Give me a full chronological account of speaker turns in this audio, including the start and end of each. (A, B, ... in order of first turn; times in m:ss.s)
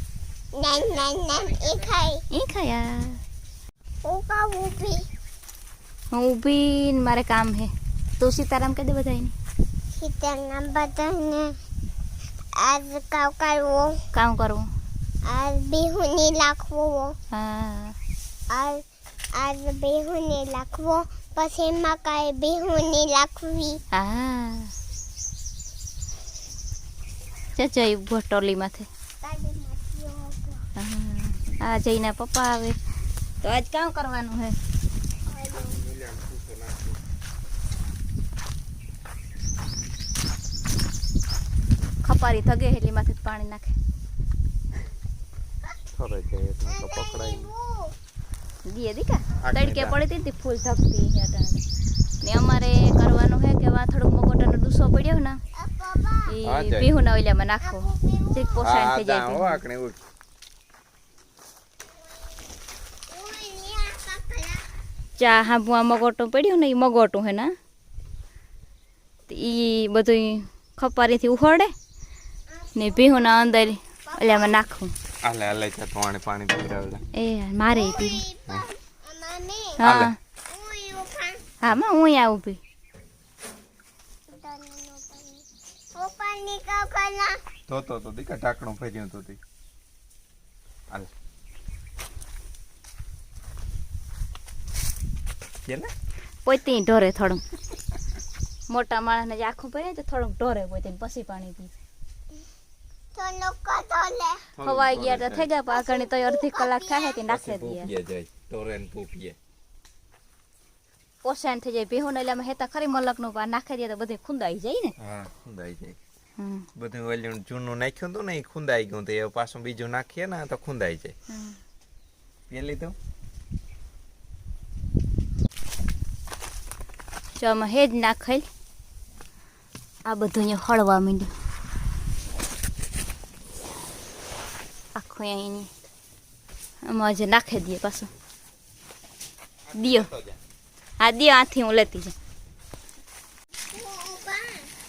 0:00.6-0:02.2 A
0:02.3-0:03.2 B
0:04.0-0:05.1 A
0:06.1-0:09.3 B
0:09.9-0:11.6 A
0:12.6-0:14.0 A
0:14.1-0:14.7 B
0:15.2-0:17.2 A
0:17.3-0:18.0 B
0:18.5-0:18.8 A
0:19.4-0:23.8 A
0:23.9-0:24.7 B
0:27.6-0:28.9 B
0:29.2-0:30.6 A
0:30.8-0:32.8 B
0:33.4-0:34.6 B
0:35.3-0:35.8 A
0:35.6-0:37.0 C
0:42.0-0:43.8 B
0:45.9-0:47.5 C
0:46.7-0:47.9 A
0:48.7-0:51.6 B
0:49.4-0:50.0 C
0:52.2-0:55.4 B
0:55.6-0:56.3 A
0:56.3-0:59.6 B
0:56.4-0:56.9 C
0:57.6-0:58.6 A
0:58.6-1:00.0 C
1:03.1-1:04.6 A
1:05.2-1:07.6 B
1:09.3-1:11.7 B
1:12.5-1:13.6 A
1:12.8-1:14.9 B
1:14.1-1:14.6 A
1:15.2-1:17.0 C
1:17.1-1:18.2 B
1:17.7-1:19.8 A
1:19.8-1:20.2 B
1:19.8-1:20.1 C
1:20.5-1:21.4 A
1:21.6-1:22.6 B
1:24.3-1:27.4 A
1:27.7-1:29.4 C
1:36.4-1:37.4 B
1:38.7-1:41.7 B
1:43.2-1:44.4 A
1:44.6-1:45.5 C
1:44.6-1:47.9 B
1:45.7-1:47.2 A
1:47.3-1:49.4 C
1:51.2-1:55.0 B
1:55.0-1:56.0 C
1:56.4-1:56.7 B
1:56.8-2:01.1 C
2:01.3-2:01.6 B
2:02.5-2:03.0 C
2:07.4-2:08.5 B
2:10.0-2:11.3 B
2:15.0-2:15.7 B
2:16.8-2:18.1 B
2:19.8-2:20.1 B
2:20.1-2:20.4 C
2:21.0-2:22.1 B
2:23.7-2:24.7 A